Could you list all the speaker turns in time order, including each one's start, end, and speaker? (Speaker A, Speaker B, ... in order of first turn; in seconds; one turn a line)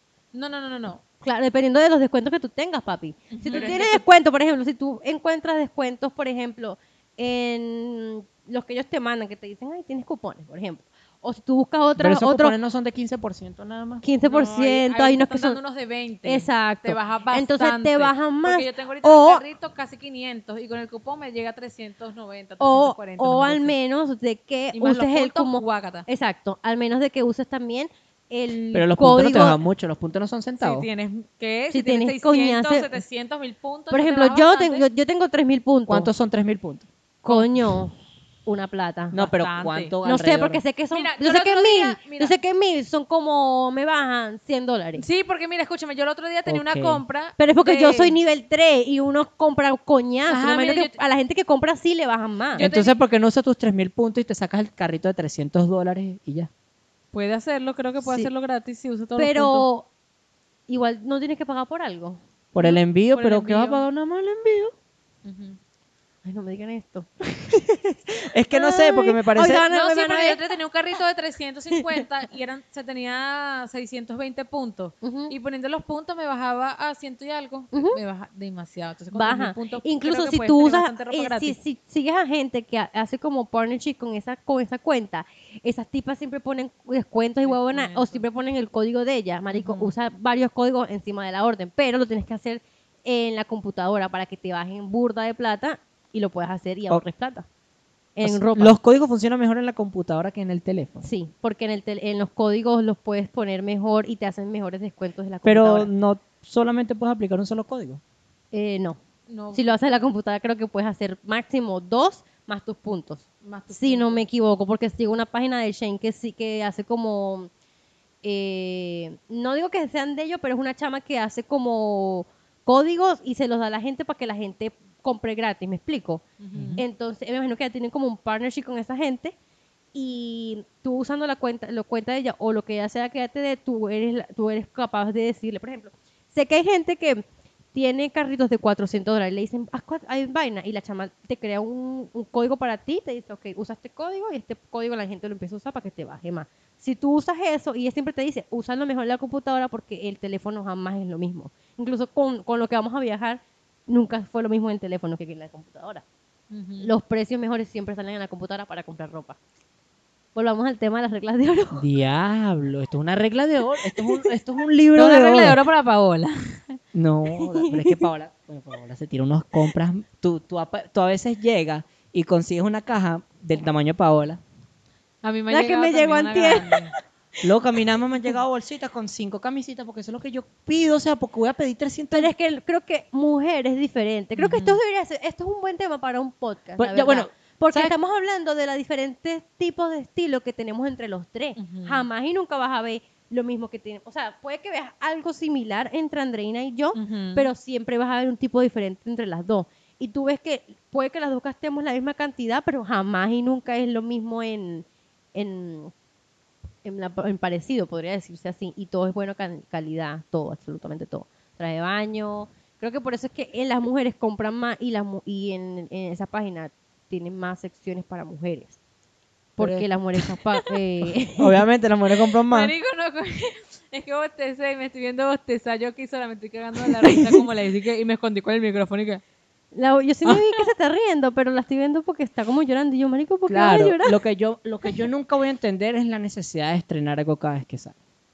Speaker A: 0.3-1.0
Speaker B: 1.2-12.6
Speaker A: 3.3-4.0
Speaker C: 3.5-3.8
Speaker C: 12.0-14.0
Speaker B: 14.0-15.6
Speaker A: 14.2-23.8
Speaker B: 16.2-19.4
Speaker B: 22.6-29.6
Speaker A: 24.7-26.1
Speaker C: 28.7-30.9
Speaker A: 30.6-34.8
Speaker B: 31.7-33.0
Speaker B: 33.9-36.1
Speaker C: 35.9-36.9
Speaker A: 37.2-37.5
Speaker B: 37.2-37.9
Speaker B: 38.5-39.3
Speaker C: 39.1-40.6
Speaker A: 39.2-40.0
Speaker B: 40.0-45.0
Speaker A: 40.9-42.4
Speaker A: 45.0-48.1
Speaker C: 46.5-47.0
Speaker B: 47.4-52.6
Speaker A: 50.3-51.0
Speaker A: 52.5-53.0
Speaker C: 52.6-56.5
Speaker A: 57.1-59.6
Speaker B: 58.0-58.3
Speaker B: 59.1-59.9
Speaker B: 60.7-62.2
Speaker C: 62.5-64.7
Speaker A: 62.6-63.8
Speaker A: 65.2-65.6
Speaker B: 66.2-67.1
Speaker C: 67.3-69.8
Speaker B: 68.5-70.4
Speaker A: 69.7-81.5
Speaker B: 71.7-72.0
Speaker B: 75.0-75.3
Speaker B: 77.7-78.0
Speaker B: 79.1-97.5
Speaker A: 87.4-88.2
Speaker A: 89.5-89.9
Speaker B: 98.2-98.8
Speaker C: 98.2-101.0
Speaker B: 101.0-105.9
Speaker C: 105.4-108.0
Speaker B: 108.5-109.0
Speaker A: 109.3-109.6
Speaker B: 109.5-117.5
Speaker A: 113.4-114.2
Speaker B: 118.2-126.2
Speaker A: 126.4-126.8
Speaker C: 126.5-126.8
Speaker B: 126.8-129.3
Speaker B: 129.9-137.2
Speaker B: 137.7-156.0
Speaker A: 156.5-156.9
Speaker B: 156.8-159.4
Speaker B: 160.3-161.8
Speaker C: 161.7-165.6
Speaker B: 163.8-164.2
Speaker A: 164.9-166.8
Speaker C: 166.9-174.4
Speaker B: 167.3-168.1
Speaker A: 175.2-176.9
Speaker B: 175.5-176.9
Speaker C: 177.4-182.3
Speaker B: 182.1-205.9
Speaker A: 184.3-184.8
Speaker C: 186.8-187.9
Speaker A: 191.6-192.0
Speaker A: 196.9-197.5
Speaker B: 206.8-218.8
Speaker B: 219.6-221.6
Speaker C: 219.6-219.9
Speaker C: 221.4-222.7
Speaker A: 222.5-229.2
Speaker B: 227.0-227.4
Speaker B: 229.7-234.2
Speaker C: 233.5-237.9